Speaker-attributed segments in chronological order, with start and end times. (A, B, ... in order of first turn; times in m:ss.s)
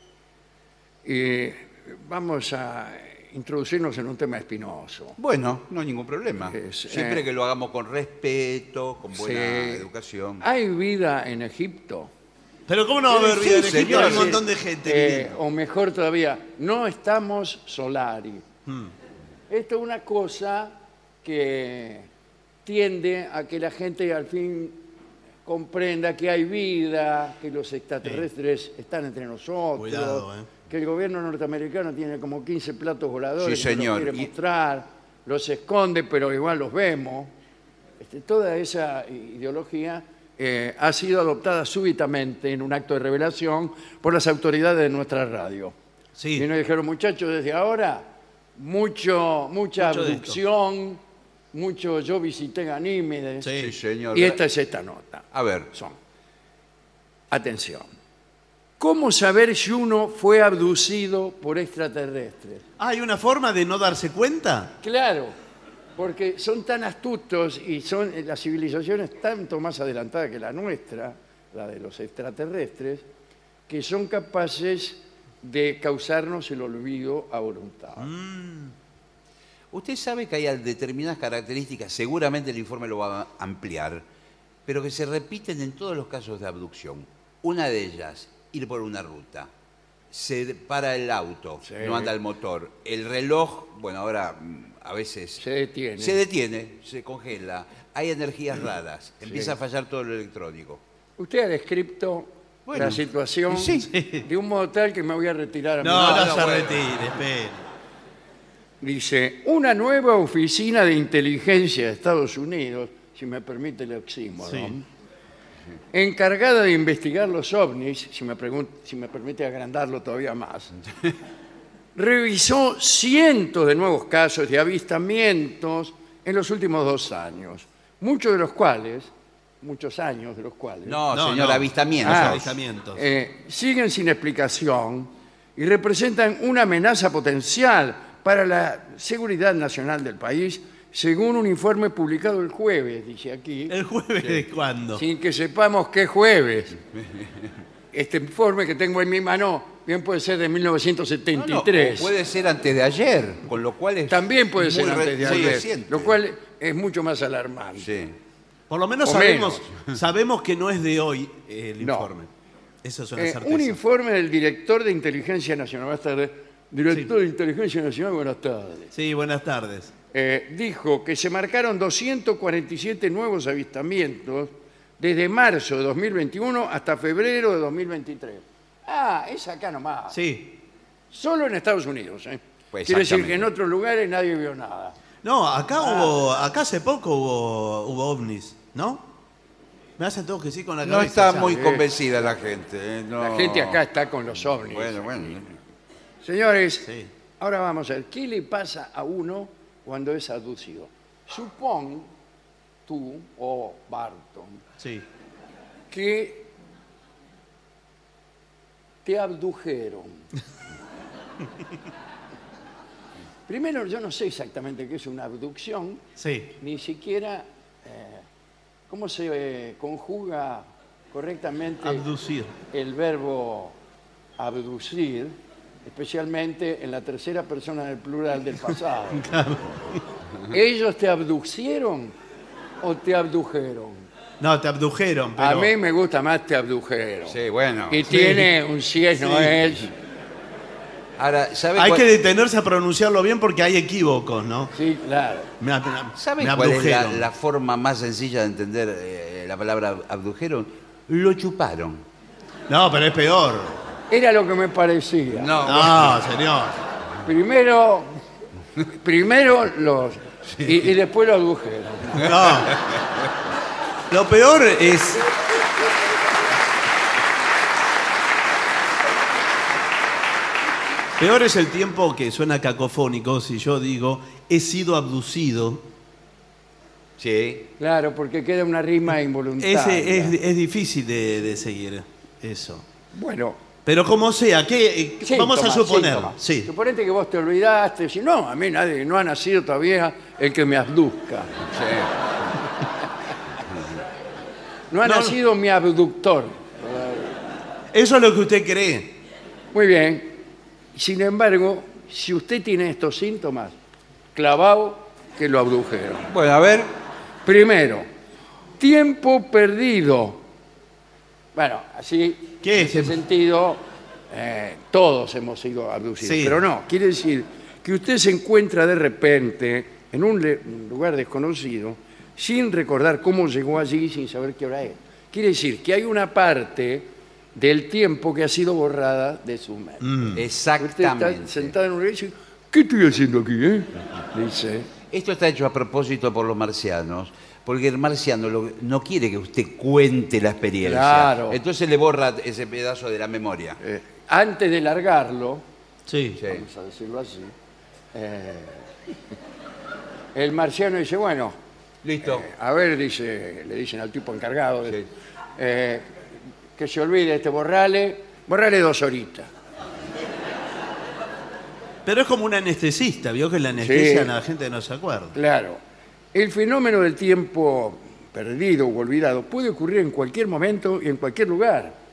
0:01.0-0:05.2 A
0:05.2-0:10.4 B
0:06.5-0:07.2 A
0:09.2-0:09.9 A
0:10.4-0:12.1 A
0:12.7-0:15.3 C
0:13.2-0:14.4 B
0:13.4-0:18.4 A
0:18.7-0:18.9 C
0:19.5-0:22.1 A
0:22.6-0:24.8 A
0:25.4-0:37.3 A
0:29.8-0:30.5 C
0:33.4-0:34.3 B
0:38.0-0:45.8 A
0:46.2-0:46.5 C
0:46.4-0:51.0 A
0:49.8-0:50.4 C
0:51.5-0:53.5 A
0:53.4-0:53.8 C
0:53.6-0:54.4 B
0:54.1-0:56.0 A
0:55.3-0:55.7 B
0:57.3-0:57.9 A
0:58.8-1:02.6 A
1:02.8-1:04.8 C
1:04.8-1:05.3 A
1:06.0-1:13.1 A
1:13.7-1:18.1 A
1:18.0-1:18.7 C
1:19.7-1:24.0 B
1:24.7-1:29.5 B
1:30.1-1:35.4 B
1:31.6-1:32.1 A
1:35.4-1:36.2 A
1:36.0-1:40.8 B
1:39.2-1:39.5 A
1:41.2-1:46.6 A
1:42.7-1:43.9 B
1:43.8-1:44.3 C
1:45.8-1:47.6 C
1:45.9-1:46.9 B
1:48.8-1:54.8 A
1:54.5-1:54.7 C
1:55.9-2:00.7 A
2:02.0-2:11.0 A
2:10.9-2:12.5 B
2:11.1-2:13.0 C
2:12.0-2:23.8 A
2:23.7-2:25.0 C
2:25.0-2:26.8 A
2:27.9-2:32.1 A
2:31.4-2:36.2 B
2:34.1-2:38.0 A
2:37.8-2:38.1 B
2:38.7-2:42.3 C
2:39.0-2:39.7 A
2:41.8-2:42.1 A
2:42.8-2:43.8 C
2:43.2-2:48.9 A
2:48.9-2:49.9 C
2:50.1-3:00.2 A
3:00.1-3:00.6 C
3:01.1-3:05.0 A
3:02.7-3:03.5 B
3:05.2-3:09.1 C
3:05.8-3:06.2 A
3:10.0-3:11.7 C
3:10.8-3:13.8 B
3:11.4-3:11.8 A
3:13.2-3:15.4 A
3:14.5-3:15.5 B
3:16.2-3:22.1 A
3:22.9-3:24.6 A
3:24.8-3:25.0 C
3:25.9-3:26.5 A
3:29.0-3:30.2 A
3:33.5-3:36.0 A
3:36.2-3:36.6 C
3:36.6-3:38.2 A
3:38.9-3:42.1 A
3:41.8-3:42.5 C
3:42.7-3:43.8 A
3:44.4-3:49.3 A
3:49.1-3:50.0 C
3:50.5-3:52.2 A
3:52.8-3:54.1 A
3:54.4-3:55.7 C
3:55.4-3:57.4 A
3:57.3-3:58.0 B
3:57.9-3:59.9 A
3:58.1-3:58.5 C
3:59.2-3:59.7 C
4:01.2-4:02.1 B
4:01.8-4:04.7 C
4:04.7-4:05.5 A
4:05.6-4:07.3 C
4:06.2-4:12.0 B
4:12.7-4:13.8 C
4:14.1-4:15.5 A
4:15.3-4:16.2 B
4:15.6-4:16.8 C
4:17.2-4:18.2 A
4:18.9-4:22.3 A
4:20.5-4:20.9 B
4:22.1-4:22.8 C
4:22.7-4:23.0 B
4:24.1-4:25.3 C
4:31.2-4:35.9 C
4:37.2-4:37.7 B
4:37.8-4:40.4 A
4:39.6-4:42.8 C
4:43.1-4:43.6 A
4:43.9-4:46.7 C
4:45.2-4:51.7 A
4:51.7-4:52.1 B
4:54.9-4:57.4 A
4:55.0-4:55.4 C
4:57.9-4:59.2 C
4:59.7-5:00.4 A
5:00.9-5:03.7 A
5:04.4-5:06.3 A
5:06.3-5:06.9 B
5:07.4-5:08.1 A
5:08.8-5:10.4 A
5:11.6-5:34.9 A
5:12.6-5:13.2 C
5:16.2-5:16.6 C
5:30.0-5:30.4 C
5:30.4-5:31.7 B
5:35.1-5:43.8 B
5:40.8-5:41.6 A
5:43.8-5:45.6 A
5:46.1-5:46.4 C
5:46.4-5:46.6 B
5:46.4-5:47.5 A
5:48.1-5:48.9 A
5:50.3-5:51.5 A
5:52.0-5:52.5 B
5:52.2-5:55.0 A
5:55.6-5:56.1 A
5:56.8-5:59.5 A
6:02.0-6:05.4 C
6:03.8-6:04.3 A
6:05.3-6:05.8 A
6:06.3-6:12.0 A